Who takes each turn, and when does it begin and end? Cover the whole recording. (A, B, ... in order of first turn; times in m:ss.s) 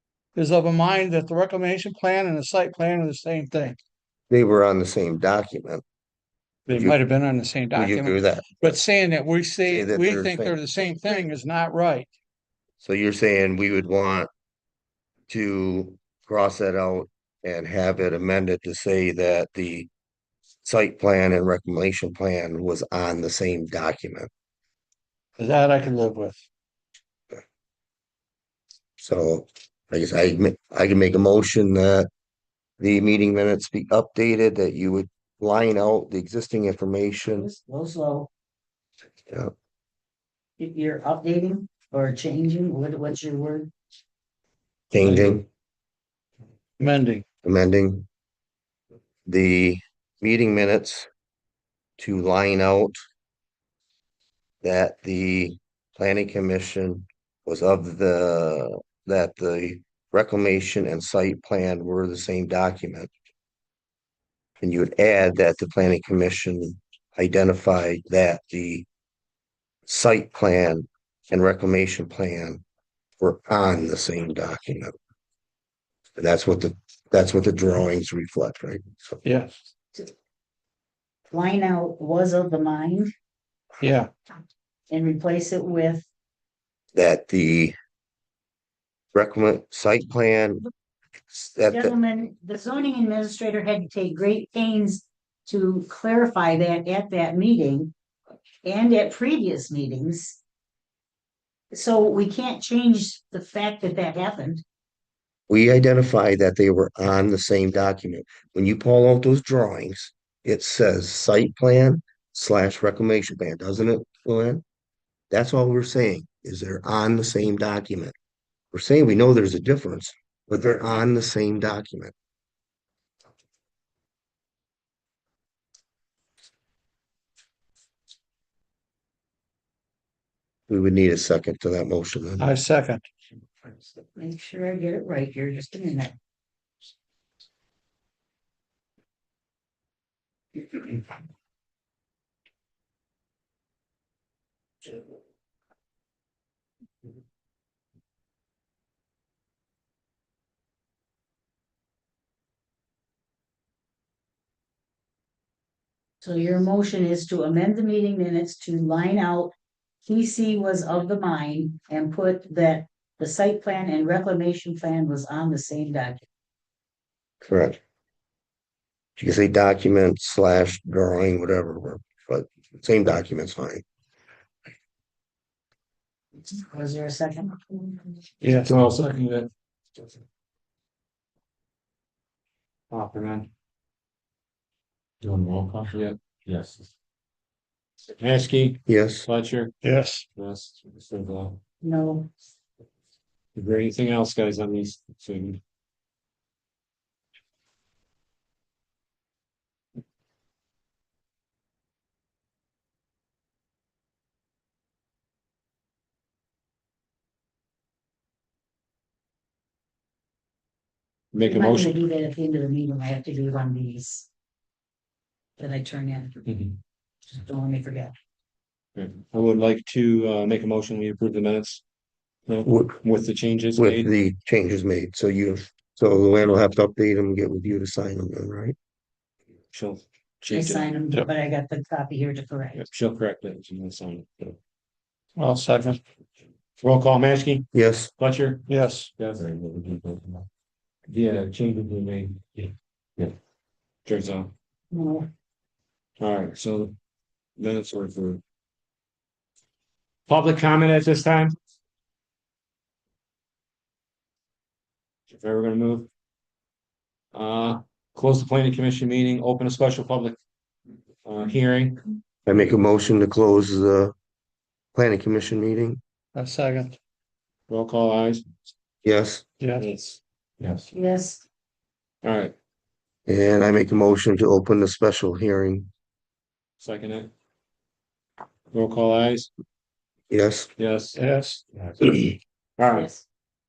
0:00.3-0:03.8 A
0:04.3-0:05.8 B
0:06.7-0:12.1 A
0:06.7-0:07.0 B
0:07.7-0:08.7 B
0:09.7-0:10.6 B
0:12.8-0:14.3 B
0:15.3-0:19.9 B
0:20.6-0:24.3 B
0:25.4-0:26.4 A
0:29.0-0:32.1 B
0:32.8-0:37.5 B
0:37.3-0:38.3 C
0:40.6-0:43.7 C
0:44.9-0:45.4 B
0:45.0-0:45.4 A
0:46.8-0:47.2 A
0:47.4-0:48.0 B
0:49.2-0:51.1 B
0:52.0-0:53.0 B
0:54.6-1:03.1 B
1:04.6-1:08.8 B
1:09.9-1:12.6 B
1:13.2-1:14.9 B
1:16.2-1:19.2 B
1:19.2-1:19.5 A
1:21.3-1:23.1 C
1:23.8-1:24.1 A
1:24.9-1:26.1 C
1:26.9-1:27.7 B
1:29.1-1:30.6 B
1:31.3-1:31.9 B
1:31.7-1:37.9 C
1:38.6-1:40.4 C
1:41.7-1:44.6 C
1:45.5-1:54.6 B
1:55.3-1:58.1 B
1:58.7-2:02.1 B
2:10.7-2:12.5 B
2:12.4-2:13.0 A
2:14.2-2:16.1 C
2:36.2-2:39.5 C
2:40.0-2:46.2 C
2:47.4-2:47.8 B
2:49.2-2:53.8 B
2:56.5-2:58.0 C
2:58.4-2:58.8 A
2:58.6-2:59.5 D
3:02.9-3:03.5 D
3:05.2-3:06.8 D
3:08.2-3:09.8 D
3:08.9-3:09.3 B
3:09.8-3:10.2 A
3:10.3-3:11.6 D
3:11.8-3:12.3 C
3:13.5-3:15.6 D
3:31.3-3:31.9 D
3:31.4-3:34.3 C
3:35.6-3:36.4 C
3:36.4-3:36.8 D
3:37.4-3:38.1 C
3:38.9-3:41.8 D
3:42.5-3:44.1 D
3:42.6-3:43.0 B
3:43.8-3:48.8 B
3:49.7-3:50.9 D
3:50.5-3:52.8 C
3:52.8-3:54.6 D
3:55.4-3:56.0 A
3:56.8-4:00.4 D
3:57.7-3:58.1 B
3:58.7-3:59.1 A
4:01.1-4:03.3 D
4:04.0-4:04.5 D
4:04.9-4:05.3 C
4:06.2-4:06.9 D
4:07.6-4:08.4 D
4:10.3-4:11.6 D
4:15.3-4:16.1 D
4:17.3-4:20.4 D
4:21.2-4:22.1 D
4:22.4-4:24.1 B
4:24.9-4:26.0 B
4:26.3-4:27.0 A
4:27.7-4:28.4 D
4:29.0-4:29.4 B
4:29.6-4:29.8 A
4:29.8-4:30.9 D
4:30.9-4:31.4 C
4:32.2-4:32.5 D
4:33.3-4:35.9 B
4:36.8-4:37.3 D
4:38.7-4:39.5 D
4:40.3-4:40.7 B
4:40.8-4:41.2 D
4:41.1-4:41.6 A
4:41.8-4:43.1 D
4:42.9-4:43.2 C